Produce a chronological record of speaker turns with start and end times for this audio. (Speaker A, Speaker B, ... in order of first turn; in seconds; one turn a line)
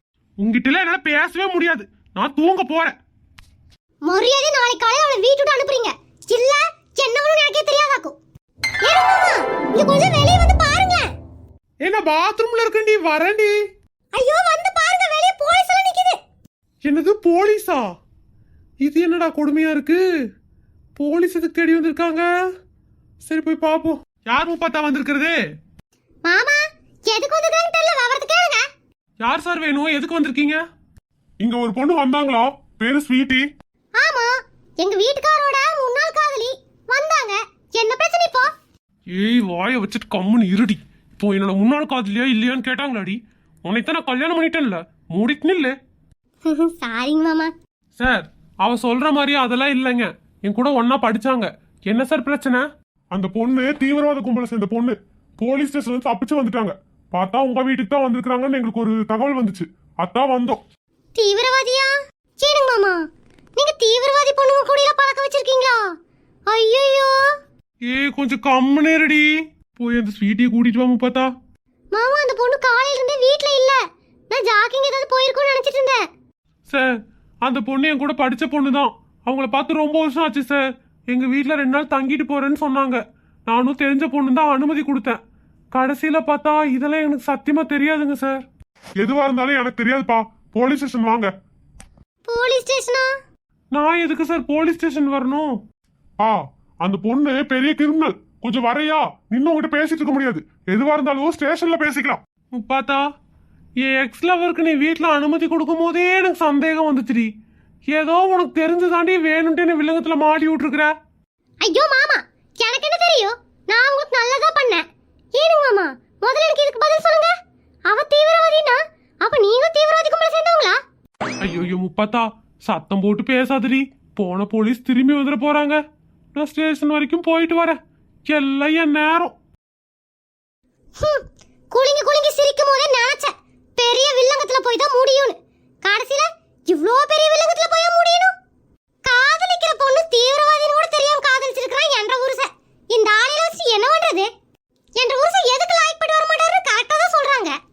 Speaker A: 0.4-2.9
Speaker B: 4.1-8.1
Speaker B: 8.8-11.1
Speaker A: 11.8-13.6
Speaker B: 14.1-16.2
Speaker A: 16.8-17.9
Speaker A: 18.8-20.0
Speaker A: 21.0-22.3
Speaker A: 23.2-25.4
Speaker B: 26.2-28.6
Speaker A: 29.2-30.6
Speaker A: 31.4-33.5
Speaker B: 34.0-34.3
Speaker B: 34.8-38.5
Speaker A: 39.1-45.7
Speaker B: 46.4-47.5
Speaker A: 48.0-60.6
Speaker B: 61.1-63.0
Speaker B: 63.5-65.8
Speaker B: 66.5-67.1
Speaker A: 67.9-71.3
Speaker B: 71.9-73.8
Speaker B: 74.3-76.0
Speaker A: 77.4-85.2
Speaker A: 85.7-88.4
Speaker A: 89.0-91.3
Speaker B: 92.3-93.1
Speaker A: 93.7-95.5
Speaker A: 96.2-103.0
Speaker A: 103.8-107.3
Speaker A: 107.9-110.9
Speaker B: 111.6-114.8
Speaker B: 115.3-117.3
Speaker B: 117.9-120.8
Speaker A: 121.4-125.8
Speaker A: 126.3-129.3
Speaker B: 131.0-138.3
Speaker B: 139.0-144.3
Speaker B: 145.0-147.5